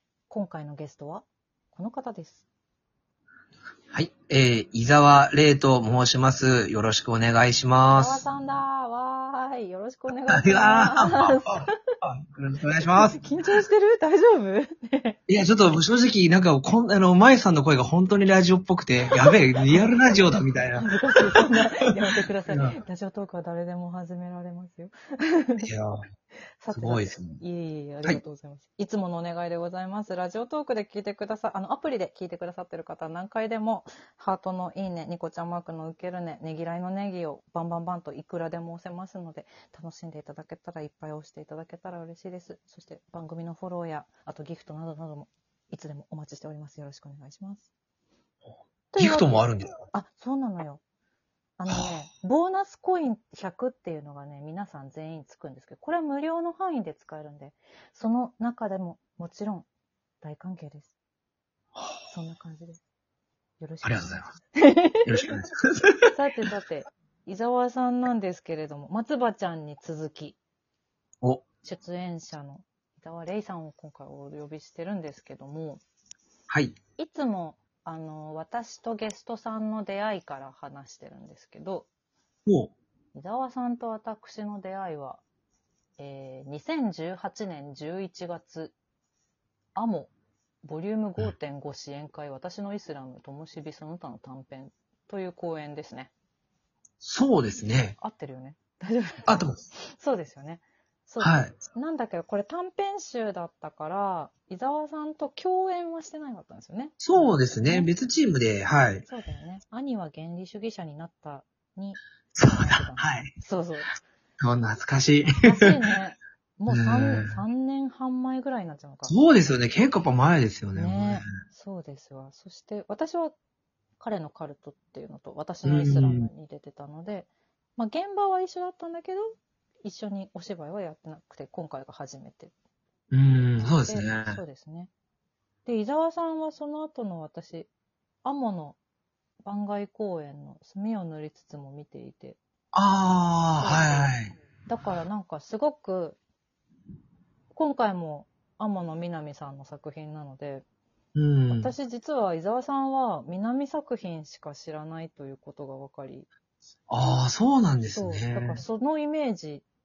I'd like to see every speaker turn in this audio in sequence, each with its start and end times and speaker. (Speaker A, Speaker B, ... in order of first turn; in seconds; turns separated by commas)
Speaker A: 0.3-2.5, Speaker B: 3.9-8.3, Speaker A: 7.9-11.9, Speaker B: 10.3-13.2, Speaker A: 12.9-15.2, Speaker B: 15.3-21.6, Speaker A: 19.2-20.1, Speaker A: 20.8-25.7, Speaker B: 22.5-22.8, Speaker B: 25.6-26.1, Speaker A: 26.6-47.7, Speaker B: 26.7-27.4, Speaker A: 48.9-50.8, Speaker B: 49.0-49.8, Speaker A: 51.6-59.7, Speaker B: 51.7-52.0, Speaker A: 60.2-60.9, Speaker B: 61.8-62.0, Speaker A: 62.1-62.8, Speaker A: 63.6-65.0, Speaker B: 63.8-64.3, Speaker B: 65.0-66.1, Speaker A: 66.1-70.4, Speaker A: 71.6-75.8, Speaker B: 76.5-76.8, Speaker A: 77.0-81.9, Speaker B: 82.5-82.7, Speaker A: 83.1-85.2, Speaker A: 86.0-88.8, Speaker A: 89.8-90.1, Speaker A: 90.6-96.1, Speaker B: 97.0-98.0, Speaker A: 98.0-99.3, Speaker B: 99.3-99.6, Speaker A: 99.8-107.9, Speaker B: 101.2-101.6, Speaker B: 107.0-109.0, Speaker A: 109.0-114.0, Speaker B: 112.3-113.3, Speaker B: 114.4-115.8, Speaker A: 115.4-119.2, Speaker B: 116.7-117.4, Speaker B: 119.1-121.3, Speaker A: 120.7-123.3, Speaker A: 124.0-132.5, Speaker B: 125.7-126.3, Speaker B: 133.1-134.4, Speaker A: 133.6-134.9, Speaker A: 135.7-137.7, Speaker A: 138.2-138.8, Speaker A: 139.4-142.4, Speaker B: 142.7-144.3, Speaker A: 143.6-146.2, Speaker A: 147.5-150.7, Speaker B: 151.2-151.7, Speaker A: 151.5-156.3, Speaker B: 156.9-158.6, Speaker A: 157.8-159.7